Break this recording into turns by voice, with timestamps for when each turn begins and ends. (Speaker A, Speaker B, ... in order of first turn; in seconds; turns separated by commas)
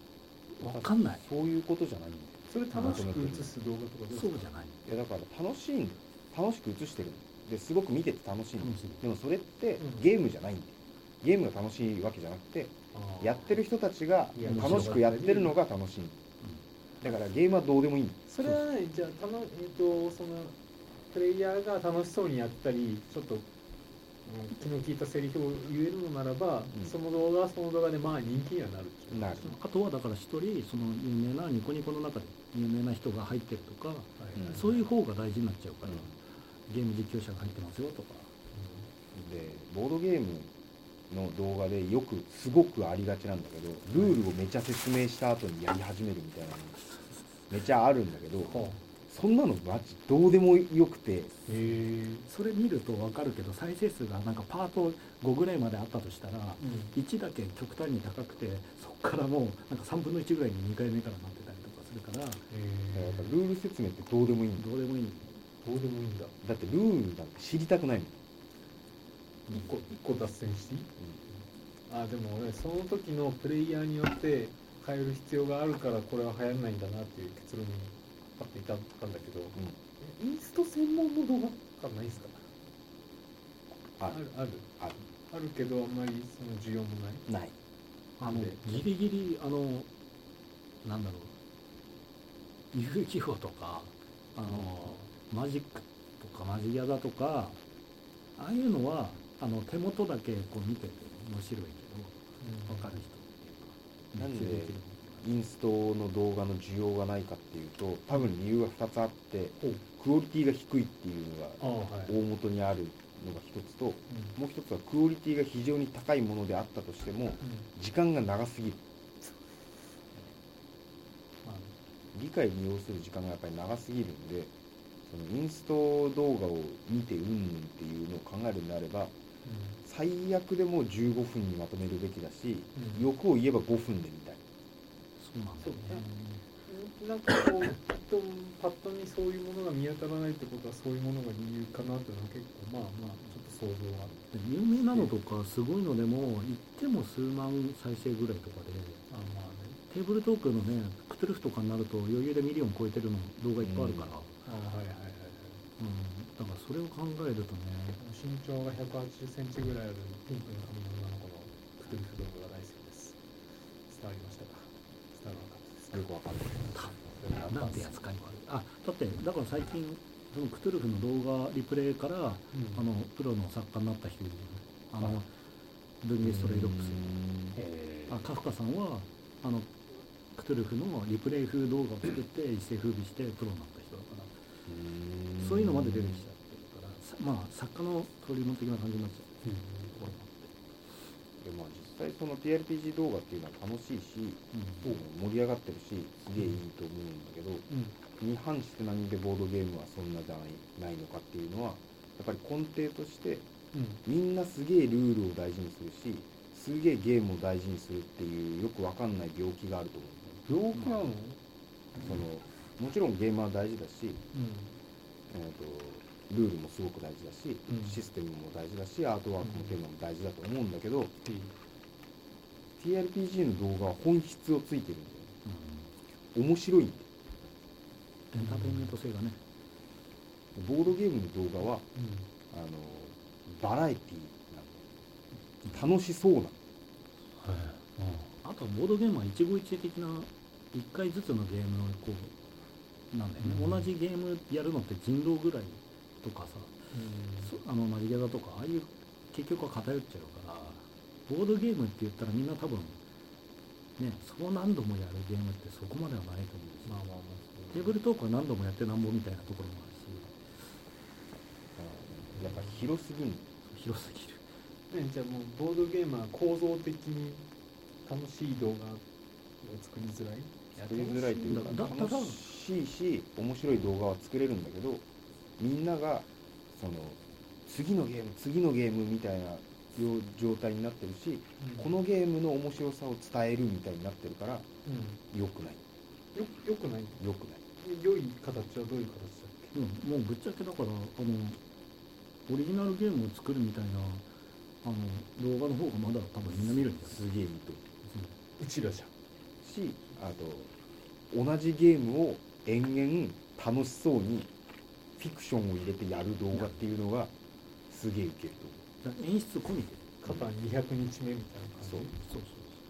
Speaker A: 0.5-1.2, Speaker B: 0.6-3.5, Speaker C: 2.5-4.5, Speaker A: 4.1-4.8, Speaker B: 4.8-16.2, Speaker A: 8.6-9.0, Speaker C: 9.8-10.1, Speaker C: 12.9-13.5, Speaker C: 14.3-15.6, Speaker A: 14.4-15.0, Speaker B: 17.0-18.6, Speaker C: 18.3-20.6, Speaker C: 21.1-23.4, Speaker C: 24.2-29.5, Speaker B: 29.1-29.5, Speaker A: 29.4-36.2, Speaker C: 34.2-34.8, Speaker B: 34.4-34.8, Speaker A: 36.7-38.3, Speaker C: 38.5-38.9, Speaker B: 39.1-40.5, Speaker B: 41.1-46.8, Speaker C: 43.9-44.2, Speaker B: 47.5-51.3, Speaker C: 48.5-48.8, Speaker C: 51.5-52.3, Speaker A: 52.2-62.4, Speaker C: 56.6-57.0, Speaker C: 62.5-63.4, Speaker B: 62.9-64.7, Speaker A: 64.5-65.4, Speaker C: 65.6-66.3, Speaker B: 66.4-68.2, Speaker A: 69.5-69.8, Speaker C: 69.5-70.9, Speaker C: 71.9-82.4, Speaker B: 84.0-84.3, Speaker C: 84.1-84.7, Speaker C: 85.3-87.2, Speaker B: 87.3-87.5, Speaker C: 88.2-88.8, Speaker A: 88.2-89.9, Speaker A: 90.8-91.3, Speaker A: 92.7-97.6, Speaker C: 94.4-95.1, Speaker A: 98.3-105.3, Speaker C: 102.4-103.0, Speaker B: 104.1-118.8, Speaker C: 111.6-112.2, Speaker C: 114.1-114.4, Speaker C: 117.4-117.7, Speaker C: 121.4-121.7, Speaker B: 122.1-124.5, Speaker B: 125.0-129.1, Speaker C: 129.4-129.8, Speaker B: 129.8-134.4, Speaker C: 132.8-133.1, Speaker A: 135.2-136.4, Speaker C: 135.6-144.2, Speaker A: 144.3-149.0, Speaker C: 144.8-145.1, Speaker C: 149.1-149.8, Speaker A: 149.9-154.3, Speaker B: 153.6-154.1, Speaker C: 154.4-155.6, Speaker A: 155.8-158.0, Speaker C: 158.0-163.2, Speaker C: 163.9-166.1, Speaker B: 165.9-166.7, Speaker C: 166.6-168.3, Speaker A: 166.7-175.3, Speaker C: 172.5-172.8, Speaker A: 176.0-177.2, Speaker B: 176.2-177.6, Speaker C: 177.6-178.2, Speaker A: 178.1-184.3, Speaker B: 184.7-186.3, Speaker A: 185.4-189.3, Speaker C: 189.4-190.1, Speaker A: 189.9-190.5, Speaker B: 191.4-203.5, Speaker A: 194.5-195.0, Speaker C: 197.7-198.0, Speaker C: 203.7-204.0, Speaker B: 204.1-211.1, Speaker C: 210.5-211.4, Speaker B: 212.0-214.2, Speaker C: 214.3-214.7, Speaker B: 215.3-221.1, Speaker C: 217.7-218.0, Speaker C: 219.4-219.8, Speaker C: 221.2-221.5, Speaker B: 222.8-225.3, Speaker A: 225.4-225.9, Speaker B: 226.3-227.1, Speaker A: 228.3-229.4, Speaker C: 228.4-228.9, Speaker B: 230.5-231.9, Speaker C: 231.9-232.3, Speaker B: 232.5-234.8, Speaker B: 235.7-236.6, Speaker C: 237.4-238.3, Speaker A: 238.4-242.3, Speaker A: 243.1-246.7, Speaker C: 243.4-243.9, Speaker C: 246.9-247.5, Speaker A: 247.4-253.0, Speaker A: 254.0-257.0, Speaker C: 256.8-258.0, Speaker A: 257.7-260.3, Speaker B: 261.8-263.4, Speaker C: 262.4-262.8, Speaker A: 263.6-264.4, Speaker C: 264.9-267.4, Speaker C: 268.0-269.0, Speaker C: 269.6-271.9, Speaker B: 270.7-275.0, Speaker A: 271.4-272.4, Speaker B: 275.6-284.7, Speaker C: 281.6-282.0, Speaker C: 284.9-285.2, Speaker B: 285.3-285.8, Speaker C: 286.3-287.2, Speaker B: 287.2-287.6, Speaker C: 287.8-289.7, Speaker A: 289.7-291.6, Speaker A: 292.5-294.2, Speaker A: 294.8-297.2, Speaker B: 296.5-297.8, Speaker A: 298.1-298.4, Speaker C: 298.6-299.1, Speaker B: 299.6-300.7, Speaker B: 301.3-304.5, Speaker B: 305.2-307.3, Speaker B: 307.9-308.8, Speaker A: 309.0-310.4, Speaker C: 310.2-312.1, Speaker B: 311.8-312.1, Speaker A: 312.1-312.8